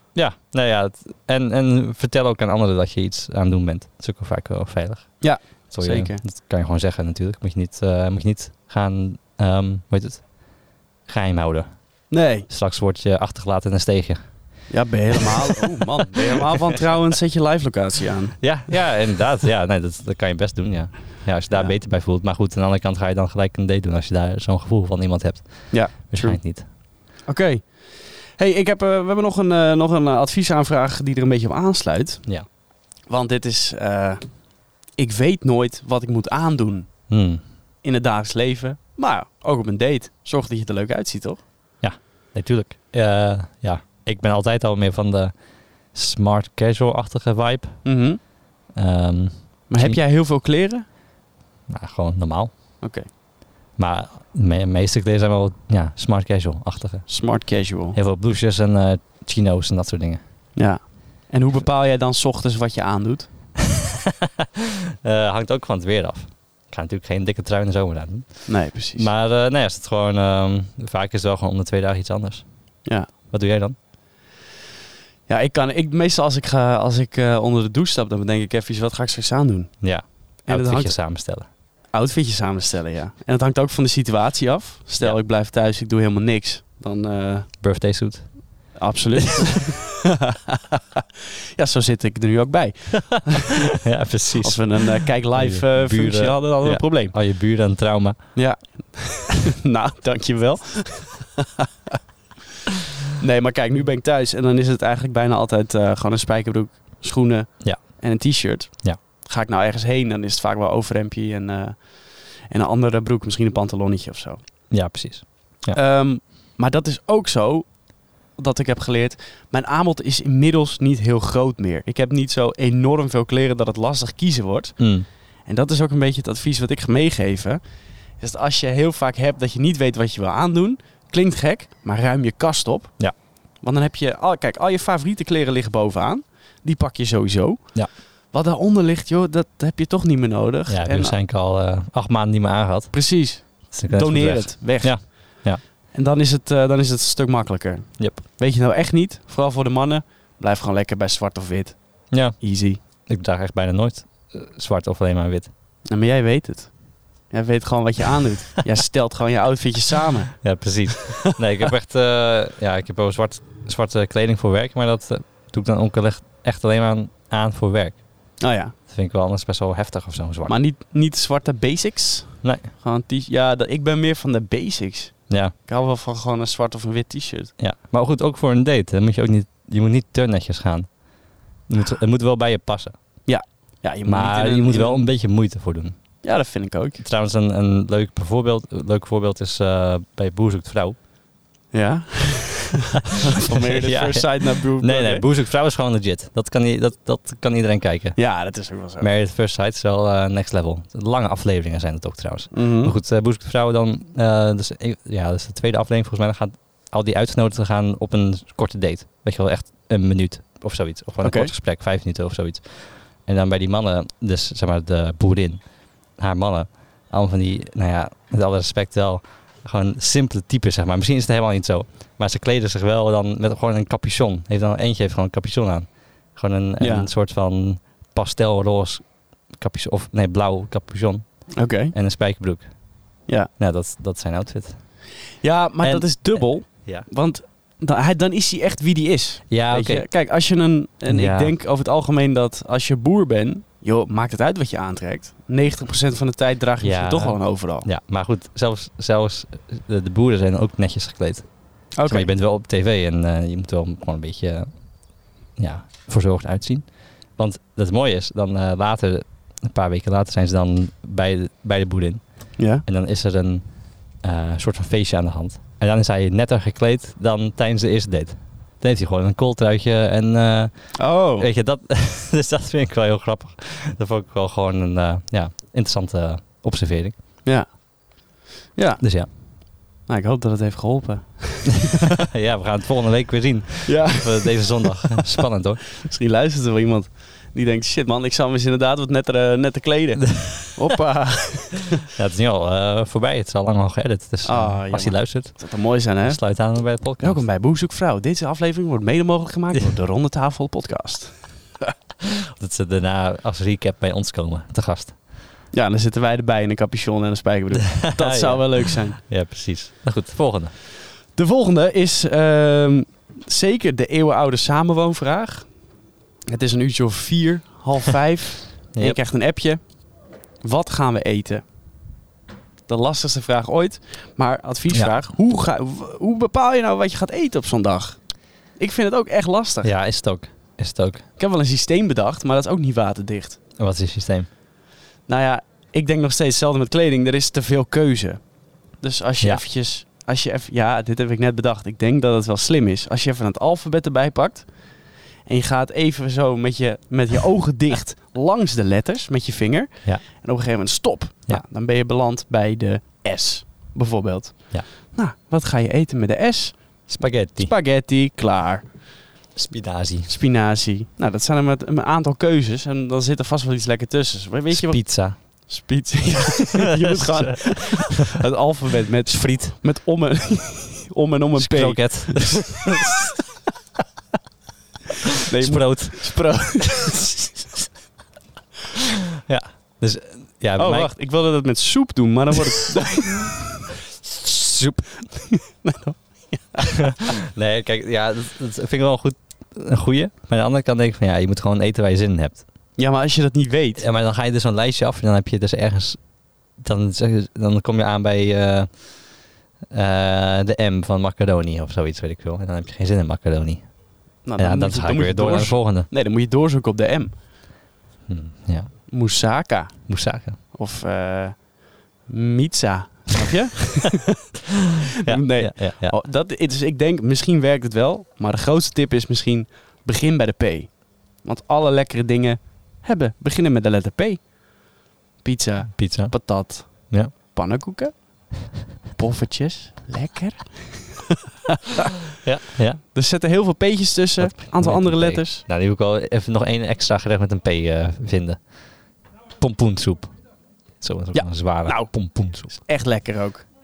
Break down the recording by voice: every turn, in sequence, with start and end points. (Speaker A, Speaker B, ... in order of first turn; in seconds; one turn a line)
Speaker A: 0.1-14.7
Speaker B: 5.2-6.2
Speaker B: 12.1-12.5
Speaker B: 14.7-18.9
Speaker A: 18.4-26.7
Speaker B: 21.5-21.8
Speaker B: 25.7-37.1
Speaker A: 37.1-37.4
Speaker B: 37.8-41.4
Speaker A: 41.8-48.1
Speaker B: 47.8-48.2
Speaker A: 48.7-50.0
Speaker B: 49.7-50.8
Speaker A: 51.7-52.8
Speaker B: 52.8-53.1
Speaker A: 53.8-60.2
Speaker B: 57.1-58.0
Speaker B: 60.5-63.5
Speaker A: 65.0-73.8
Speaker B: 68.5-69.1
Speaker B: 75.3-87.5
Speaker A: 79.8-81.5
Speaker A: 87.6-88.9
Speaker B: 88.7-91.0
Speaker B: 91.5-93.7
Speaker A: 93.8-98.3
Speaker B: 94.4-97.1
Speaker B: 98.3-101.7
Speaker B: 103.2-114.4
Speaker A: 107.6-108.0
Speaker A: 114.7-115.8
Speaker B: 115.7-127.6
Speaker A: 124.8-125.1
Speaker B: 128.2-141.2
Speaker A: 140.7-145.6
Speaker B: 142.9-152.8
Speaker A: 152.1-155.5
Speaker B: 155.8-161.0
Speaker A: 160.4-170.6
Speaker B: 168.4-168.7
Speaker B: 170.4-177.5
Speaker A: 175.3-175.5
Speaker A: 177.6-183.3
Speaker B: 183.2-185.1
Speaker A: 184.0-186.3
Speaker B: 186.2-187.0
Speaker A: 187.0-190.9
Speaker B: 191.7-195.3
Speaker A: 193.8-235.0
Speaker B: 198.1-199.1
Speaker B: 202.5-202.9
Speaker B: 211.2-211.5
Speaker B: 226.8-227.1
Speaker B: 231.5-231.9
Speaker B: 235.4-247.9
Speaker A: 235.8-237.1
Speaker A: 239.5-240.1
Speaker A: 241.1-241.5
Speaker A: 246.8-277.1
Speaker B: 251.9-252.3
Speaker B: 262.6-262.8
Speaker B: 270.9-271.5
Speaker B: 277.4-281.9
Speaker A: 279.0-279.3
Speaker A: 282.3-285.8
Speaker B: 283.9-285.2
Speaker B: 286.0-292.0
Speaker A: 290.4-290.7
Speaker A: 292.0-297.4
Speaker B: 294.4-301.5
Speaker A: 302.6-305.2
Speaker B: 305.7-309.2
Speaker A: 308.1-310.7
Speaker B: 311.3-315.9
Speaker B: 316.5-320.0
Speaker A: 318.9-319.2
Speaker B: 320.6-321.6
Speaker B: 322.9-329.9
Speaker A: 329.8-331.2
Speaker B: 331.4-333.6
Speaker A: 333.8-334.5
Speaker B: 335.3-359.1
Speaker A: 357.1-357.7
Speaker A: 359.5-360.4
Speaker B: 360.2-373.1
Speaker A: 364.7-365.4
Speaker A: 367.1-367.9
Speaker A: 369.3-369.7
Speaker A: 371.6-372.9
Speaker B: 375.4-377.8
Speaker A: 375.6-376.6
Speaker A: 379.5-381.1
Speaker B: 380.8-387.3
Speaker A: 387.5-392.7
Speaker B: 392.9-394.0
Speaker A: 394.0-406.1
Speaker B: 404.4-407.3
Speaker A: 408.3-409.1
Speaker B: 409.1-414.4
Speaker A: 410.1-410.6
Speaker B: 415.2-431.3
Speaker A: 415.2-416.2
Speaker A: 425.9-427.3
Speaker A: 432.4-433.0
Speaker B: 433.0-435.6
Speaker A: 434.4-442.8
Speaker B: 441.3-443.7